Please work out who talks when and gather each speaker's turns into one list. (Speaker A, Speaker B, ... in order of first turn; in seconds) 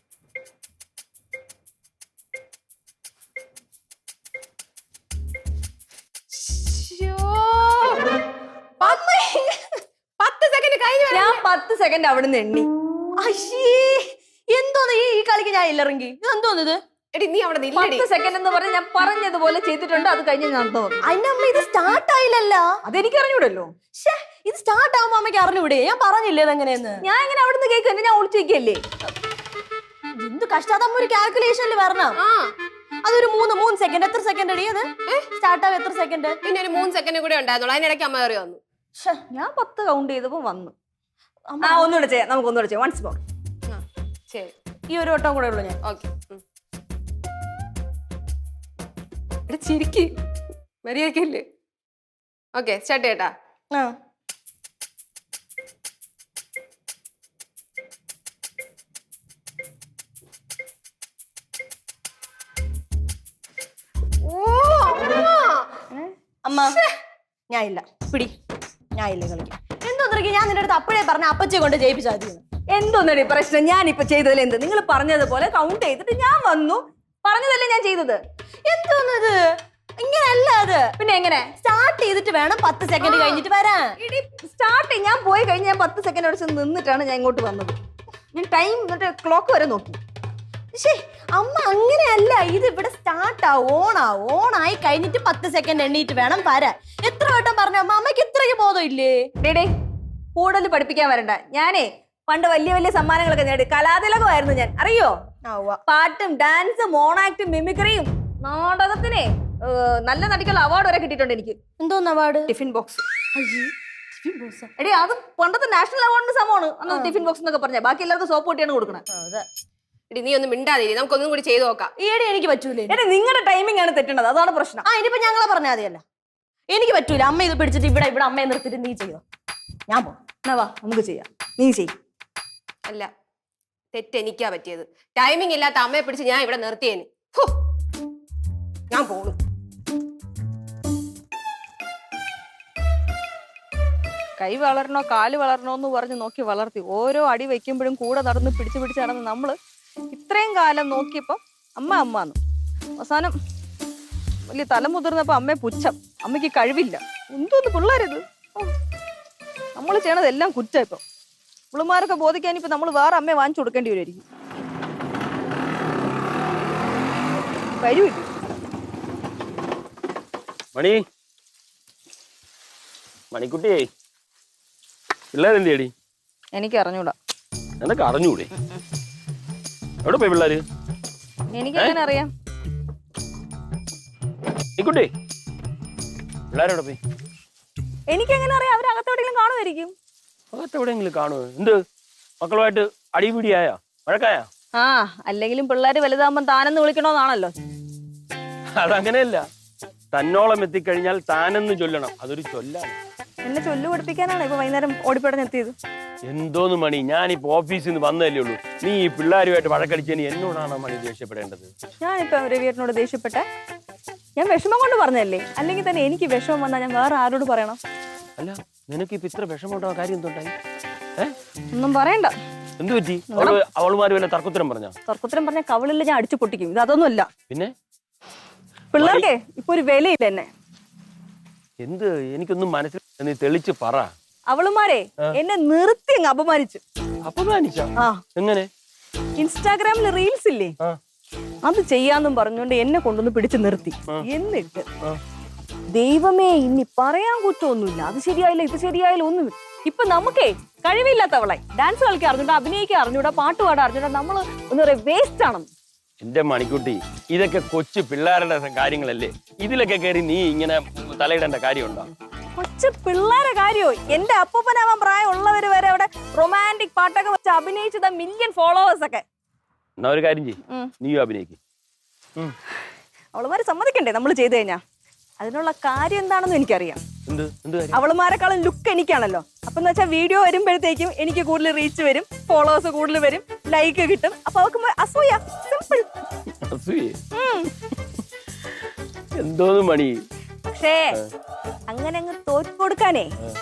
Speaker A: 6.3-8.0, 10.2-11.2, 17.1-18.1, 32.2-32.5, 36.4-38.6, 43.7-44.5, 45.8-46.4, 49.6-50.0, 50.9-51.4, 52.5-53.3, 120.1-121.9, 133.9-137.5, 138.9-139.4
Speaker B: 8.9-9.6, 13.2-16.8, 21.1-22.7, 24.0-27.0, 30.2-32.2, 33.0-36.4, 41.5-41.9, 44.9-45.8, 49.5-50.1, 64.2-65.7, 66.5-66.9, 67.5-68.3, 69.0-72.4, 78.7-79.4, 80.0-80.9, 81.6-83.9, 90.7-99.2, 105.5-105.8, 111.8-112.5, 113.3-114.7, 116.9-117.2, 119.1-119.5, 122.0-123.0, 124.9-126.0, 126.7-129.2, 129.9-130.2
Speaker C: 11.1-12.7, 17.8-21.0, 22.9-23.7, 27.0-28.8, 39.3-40.7, 41.6-43.2, 72.7-78.2, 81.0-81.5, 83.0-83.4, 84.0-87.8, 88.3-90.0, 99.4-99.7, 100.3-105.2, 105.9-111.6, 112.5-113.0, 114.8-119.0, 122.9-124.9, 130.5-131.9, 144.4-149.6, 150.1-152.4, 153.0-153.3, 154.5-158.7, 159.8-161.0, 161.7-164.2, 167.8-168.3, 176.6-177.2, 181.6-182.3, 188.1-189.9, 194.8-197.5, 203.4-205.8, 212.0-213.4, 214.4-217.8, 221.7-222.3, 223.3-223.6, 225.1-227.3, 228.9-230.5, 234.5-236.8, 239.4-240.7, 241.6-244.9, 245.9-255.7, 262.6-269.2, 273.3-274.8, 275.4-277.0, 277.9-286.1, 287.3-287.7, 290.7-291.2, 291.9-293.3
Speaker D: 170.8-171.0, 173.3-173.9, 175.3-175.9, 177.8-178.5, 180.0-180.6, 184.8-185.1, 186.5-187.0, 190.5-191.8, 192.4-194.5, 198.8-199.4, 200.1-203.0, 206.3-211.7, 218.4-220.5, 222.8-224.9, 228.9-229.3, 231.8-234.1, 237.2-238.7, 256.2-262.1, 270.0-271.6, 277.3-278.0, 286.7-287.2, 289.4-290.1